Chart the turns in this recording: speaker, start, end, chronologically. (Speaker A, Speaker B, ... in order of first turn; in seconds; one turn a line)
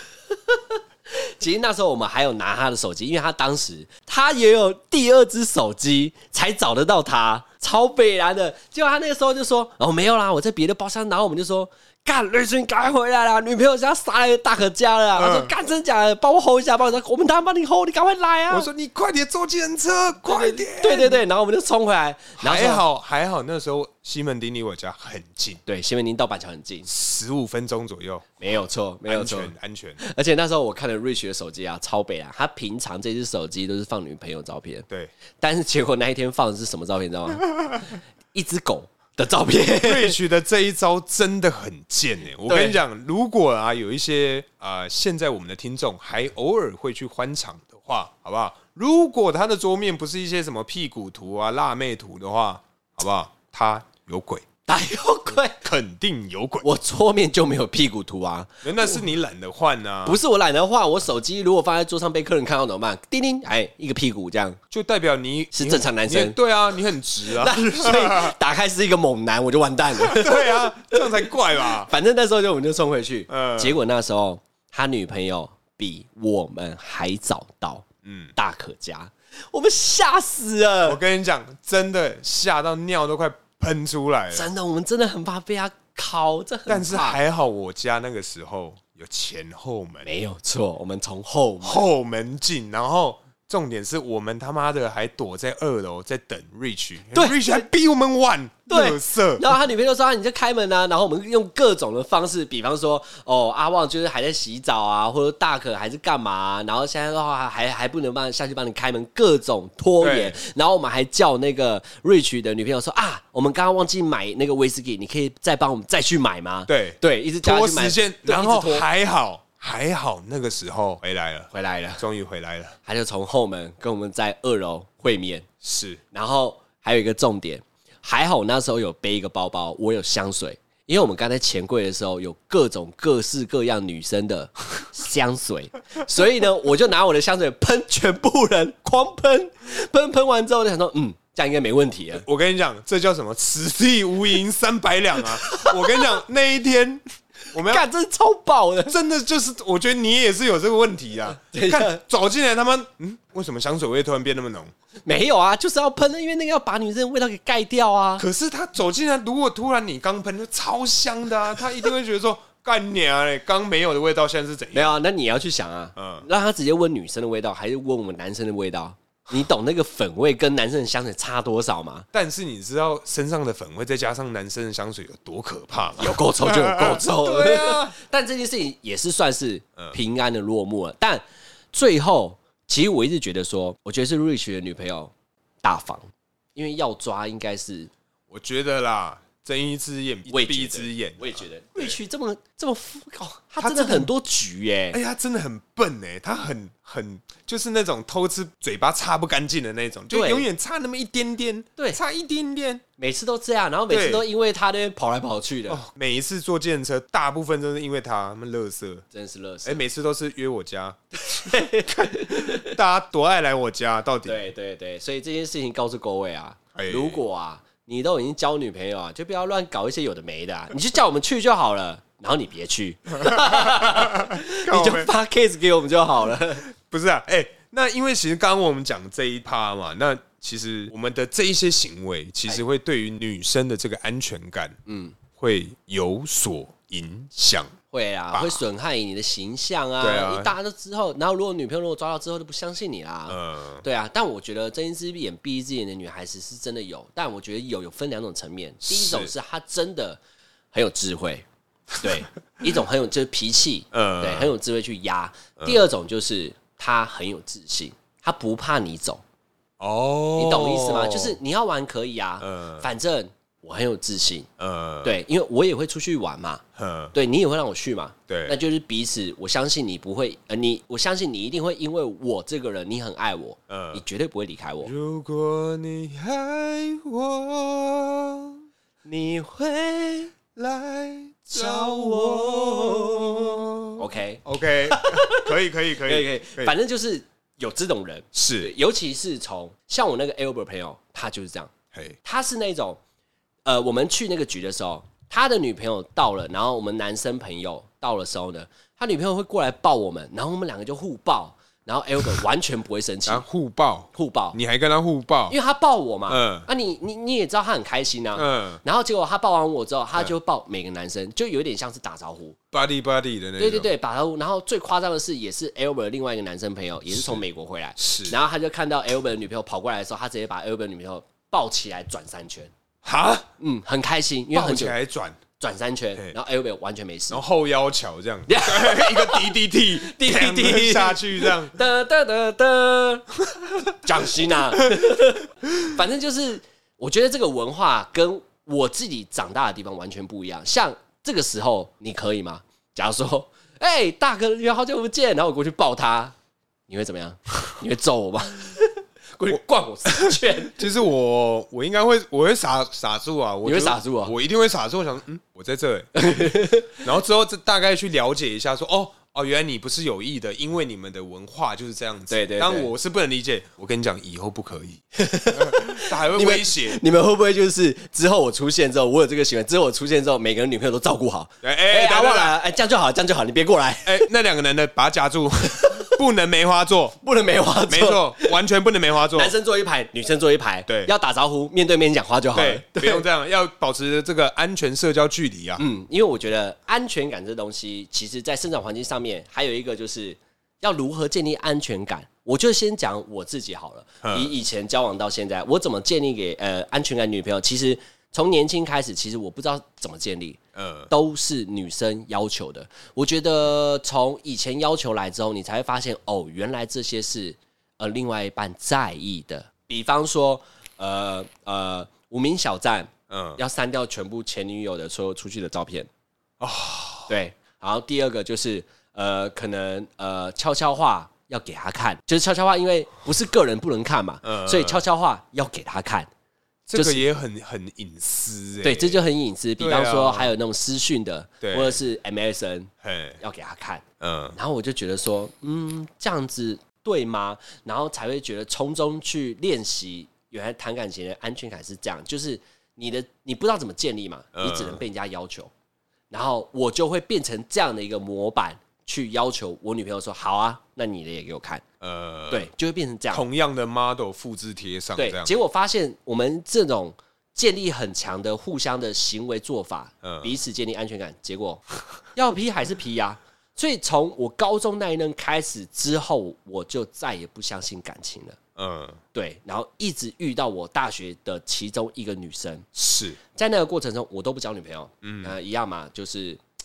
Speaker A: 0.3-18.7
Speaker B: 15.1-15.5
Speaker B: 18.5-21.2
Speaker A: 20.2-22.8
Speaker B: 22.4-25.6
Speaker A: 25.6-26.9
Speaker B: 26.9-28.4
Speaker A: 28.4-34.9
Speaker B: 29.1-30.0
Speaker A: 35.4-40.2
Speaker B: 39.8-54.5
Speaker A: 42.5-42.8
Speaker A: 54.7-55.6
Speaker B: 55.6-56.7
Speaker A: 56.6-59.0
Speaker B: 58.6-60.2
Speaker A: 60.0-64.6
Speaker B: 64.7-68.3
Speaker A: 65.5-66.4
Speaker A: 67.2-81.0
Speaker B: 69.9-71.9
Speaker B: 73.3-73.8
Speaker B: 78.0-78.3
Speaker B: 80.8-84.5
Speaker A: 84.3-87.2
Speaker B: 86.7-90.1
Speaker A: 90.0-91.8
Speaker B: 91.6-99.5
Speaker A: 97.1-97.6
Speaker A: 98.7-118.8
Speaker B: 110.0-110.4
Speaker B: 116.7-122.8
Speaker A: 121.5-122.0
Speaker A: 122.8-125.5
Speaker B: 125.6-126.0
Speaker A: 126.1-142.2
Speaker B: 142.1-147.8
Speaker A: 145.2-146.1
Speaker A: 147.6-148.9
Speaker B: 148.8-154.7
Speaker A: 151.4-152.0
Speaker A: 155.0-158.2
Speaker B: 158.2-164.9
Speaker A: 164.7-172.1
Speaker B: 165.9-166.3
Speaker B: 172.1-177.9
Speaker A: 176.0-181.2
Speaker A: 181.7-185.1
Speaker A: 185.6-186.0
Speaker A: 186.6-187.9
Speaker B: 188.3-192.0
Speaker A: 190.3-195.0
Speaker B: 193.6-194.1
Speaker B: 194.9-202.8
Speaker A: 200.1-200.4
Speaker A: 203.0-205.8
Speaker B: 203.9-204.2
Speaker B: 205.7-209.0
Speaker A: 209.1-209.8
Speaker B: 209.6-214.4
Speaker A: 211.2-212.8
Speaker A: 214.2-226.7
Speaker B: 216.7-217.2
Speaker B: 223.2-225.1
Speaker B: 226.7-234.8
Speaker A: 234.8-235.2
Speaker B: 235.4-237.7
Speaker A: 237.9-250.2
Speaker B: 238.3-238.6
Speaker B: 240.0-240.5
Speaker B: 243.3-243.8
Speaker B: 248.8-249.3
Speaker A: 250.7-259.2
Speaker B: 253.9-254.5
Speaker B: 255.6-255.8
Speaker B: 259.8-261.4
Speaker A: 260.4-264.5
Speaker B: 262.4-262.9
Speaker B: 264.6-265.2
Speaker A: 265.0-266.6
Speaker B: 266.8-267.1
Speaker A: 267.1-274.9
Speaker B: 268.3-268.6
Speaker B: 273.7-274.0
Speaker B: 274.8-278.6
Speaker A: 279.0-280.3
Speaker B: 280.5-286.7
Speaker A: 281.5-291.7
Speaker B: 288.3-288.7
Speaker A: 292.2-293.0
Speaker A: 293.6-303.4
Speaker B: 303.2-305.6
Speaker A: 304.1-304.6
Speaker A: 305.5-312.6
Speaker B: 306.3-306.7
Speaker B: 308.3-308.8
Speaker B: 312.7-313.9
Speaker A: 313.6-322.7
Speaker B: 317.1-317.4
Speaker B: 318.0-318.4
Speaker B: 323.0-323.5
Speaker A: 323.6-324.9
Speaker B: 324.5-325.4
Speaker A: 325.6-327.4
Speaker B: 327.3-331.8
Speaker A: 328.5-333.3
Speaker A: 333.9-346.3
Speaker B: 334.8-335.2
Speaker A: 346.9-350.8
Speaker B: 350.1-367.0
Speaker A: 353.6-354.3
Speaker A: 356.1-357.0
Speaker A: 362.3-362.9
Speaker A: 365.1-374.3
Speaker B: 371.6-372.5
Speaker B: 374.0-377.2
Speaker A: 375.8-376.1
Speaker A: 377.2-378.6
Speaker B: 377.9-379.5
Speaker A: 379.3-383.2
Speaker B: 380.9-381.1
Speaker B: 382.5-385.8
Speaker A: 385.8-400.6
Speaker B: 394.2-394.5
Speaker B: 400.7-401.1
Speaker A: 401.1-416.1
Speaker B: 413.3-413.6
Speaker B: 416.6-417.3
Speaker A: 417.3-426.3
Speaker B: 424.4-425.0
Speaker B: 426.9-429.2
Speaker A: 426.9-427.2
Speaker A: 428.8-434.0
Speaker B: 429.8-430.5
Speaker B: 431.6-432.0
Speaker B: 433.0-433.4
Speaker B: 434.2-434.6
Speaker A: 434.5-445.7
Speaker B: 444.5-445.0
Speaker A: 446.3-451.8
Speaker B: 452.0-452.7
Speaker A: 452.5-453.4
Speaker B: 453.3-455.5
Speaker A: 455.1-468.6
Speaker B: 460.2-460.5
Speaker B: 468.8-469.2
Speaker A: 469.3-472.9
Speaker B: 472.9-473.4
Speaker A: 473.5-476.6
Speaker B: 475.2-475.6